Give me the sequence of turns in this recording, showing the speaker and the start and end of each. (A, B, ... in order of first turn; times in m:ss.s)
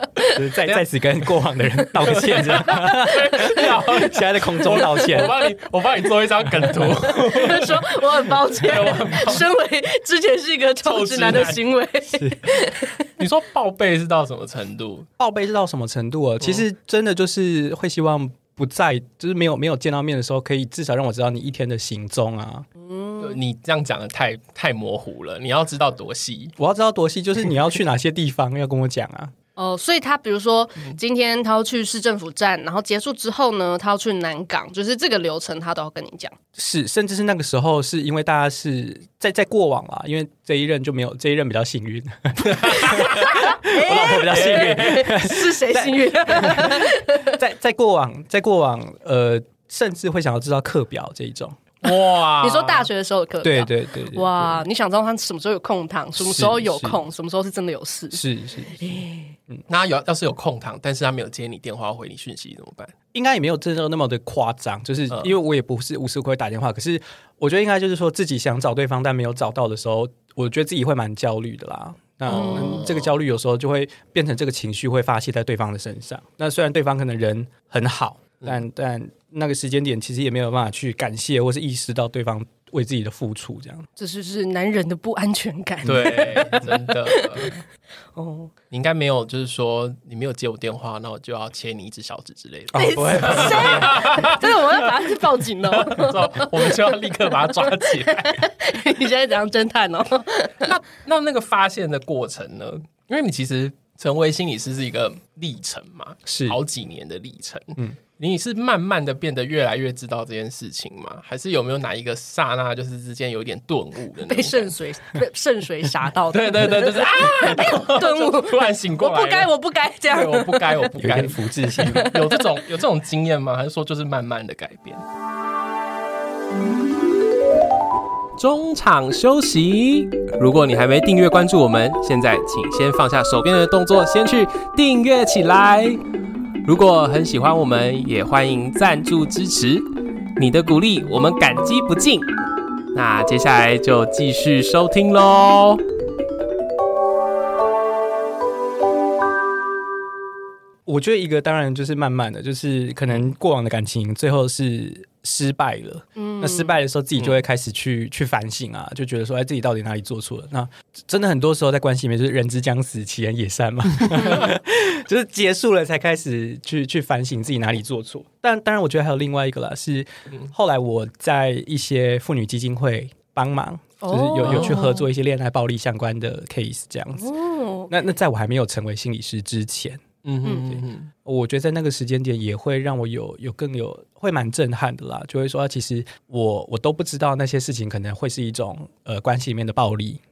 0:00.3-0:05.4 A
0:02.0-0:09.5 B
0:07.1-0:13.0 C
0:10.8-0:11.6 B
0:12.1-0:12.4 A
0:13.2-0:15.1 B
0:15.2-0:22.7 A
0:22.8-0:23.4 C
0:23.2-0:26.5 B
0:26.6-0:29.3 A
0:29.6-0:36.4 C
0:36.6-0:51.6 A
0:42.4-0:43.4 B
0:42.8-0:47.4 C
0:44.3-0:45.1 B
0:51.8-0:52.9 B
0:52.4-0:58.2 C
0:53.4-0:54.6 A
0:56.2-0:57.0 A
0:58.1-0:59.6 A
0:58.8-0:59.3 C
0:59.7-1:02.9 B
1:03.1-1:23.9 A
1:12.3-1:12.9 C
1:12.3-1:13.1 B
1:24.0-1:27.6 C
1:25.8-1:27.6 B
1:28.2-1:28.5 C
1:28.7-1:38.4 B
1:32.7-1:34.1 A
1:32.7-1:40.7 C
1:40.6-1:54.7 B
1:46.3-1:46.6 A
1:54.3-2:00.9 C
1:56.3-1:59.5 B
2:00.1-2:05.0 B
2:01.0-2:02.1 A
2:01.8-2:02.4 C
2:08.4-2:16.0 B
2:16.6-2:22.3 B
2:22.9-2:25.8 B
2:30.9-2:57.3 A
2:36.2-2:36.8 C
2:44.2-2:44.5 C
2:54.0-2:55.1 C
2:54.4-2:54.8 B
2:57.2-2:57.9 C
2:57.9-3:00.0 A
3:00.2-3:01.1 B
3:00.4-3:00.7 C
3:00.7-3:10.2 A